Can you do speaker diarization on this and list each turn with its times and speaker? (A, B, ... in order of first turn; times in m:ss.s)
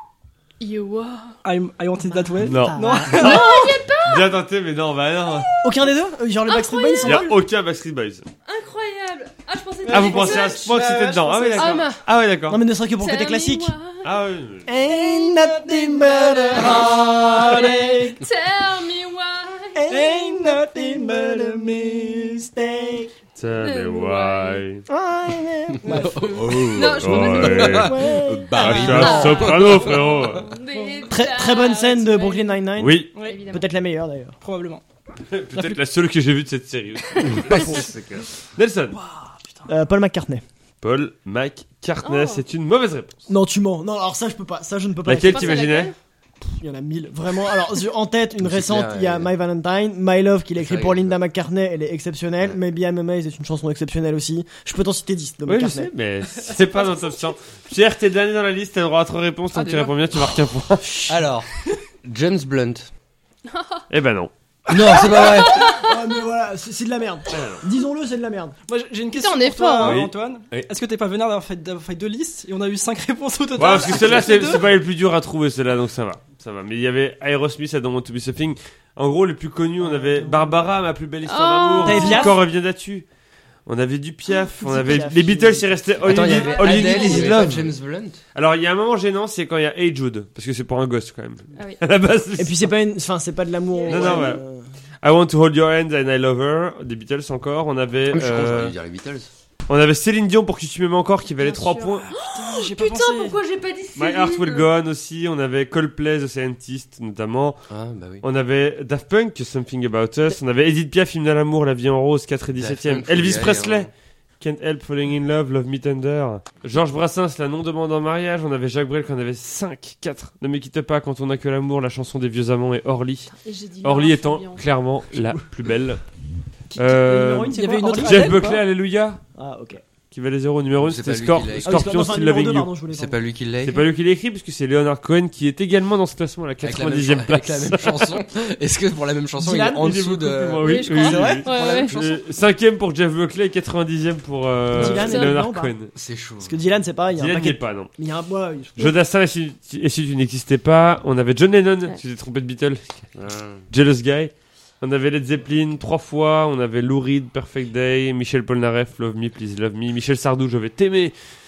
0:00.6-0:01.4 A
0:01.4-0:03.7 B
0:02.1-0:03.3 C
0:02.4-0:05.5 D
0:03.1-0:04.3 A
0:05.6-0:07.4 C
0:06.5-0:07.3 A
0:07.0-0:08.3 D
0:08.5-0:10.7 A
0:09.8-0:11.7 B
0:09.9-0:12.6 D
0:11.2-0:11.6 C
0:11.6-0:12.0 A
0:12.5-0:13.7 C
0:13.0-0:14.0 A
0:14.0-0:14.7 D
0:14.7-0:18.2 C
0:16.4-0:19.8 A
0:19.8-0:23.1 C
0:19.9-0:22.3 B
0:23.4-0:24.9 D
0:23.6-0:24.6 A
0:24.9-0:26.6 C
0:25.8-0:30.5 E
0:26.6-0:32.7 A
0:26.8-0:30.5 D
0:27.6-0:29.4 C
0:30.7-0:31.1 B
0:31.1-0:34.4 C
0:32.8-0:33.1 D
0:33.1-0:33.4 B
0:33.2-0:33.7 A
0:34.4-0:34.8 B
0:35.3-0:39.0 D
0:37.3-0:38.0 E
0:39.0-0:39.7 B
0:39.7-0:40.4 C
0:40.8-0:43.2 D
0:42.0-0:42.4 A
0:43.3-0:45.9 C
0:45.0-0:45.9 D
0:45.2-0:46.0 A
0:46.5-0:55.9 C
0:48.4-0:49.3 E
0:50.6-0:51.2 E
0:55.5-1:01.0 D
0:56.6-0:57.2 A
0:59.5-1:00.0 E
1:01.1-1:01.5 E
1:02.0-1:02.9 E
1:03.5-1:03.8 A
1:03.9-1:04.3 D
1:04.7-1:05.7 E
1:05.1-1:08.6 C
1:05.2-1:05.9 A
1:07.3-1:07.6 D
1:08.7-1:14.7 B
1:09.1-1:10.0 A
1:09.8-1:10.6 D
1:13.6-1:23.1 D
1:19.9-1:20.6 C
1:21.3-1:22.4 A
1:21.8-1:22.4 C
1:23.7-1:27.7 D
1:24.5-1:26.1 C
1:26.0-1:28.2 E
1:26.2-1:27.4 A
1:28.4-1:32.7 D
1:32.4-1:34.6 C
1:33.7-1:34.4 A
1:33.9-1:34.4 D
1:35.0-1:38.8 D
1:38.1-1:39.3 E
1:39.7-1:42.1 D
1:41.4-1:44.7 A
1:42.1-1:43.4 B
1:44.0-1:47.6 D
1:47.7-1:48.2 E
1:48.2-2:06.0 D
1:52.6-1:53.9 E
2:03.4-2:04.6 A
2:06.7-2:08.5 C
2:06.8-2:09.2 D
2:07.5-2:08.6 B
2:09.4-2:09.8 C
2:10.1-2:12.7 D
2:10.8-2:12.0 E
2:11.6-2:13.2 C
2:12.9-2:13.9 E
2:13.6-2:18.2 D
2:16.6-2:20.8 E
2:19.4-2:20.2 C
2:19.8-2:25.9 D
2:20.6-2:21.9 A
2:20.9-2:21.6 C
2:21.4-2:22.2 E
2:24.7-2:25.8 C
2:24.8-2:25.4 A
2:26.0-2:26.6 E
2:26.4-2:29.0 C
2:27.1-2:27.9 D
2:28.8-2:33.1 D
2:33.2-2:33.7 E
2:33.7-2:41.2 D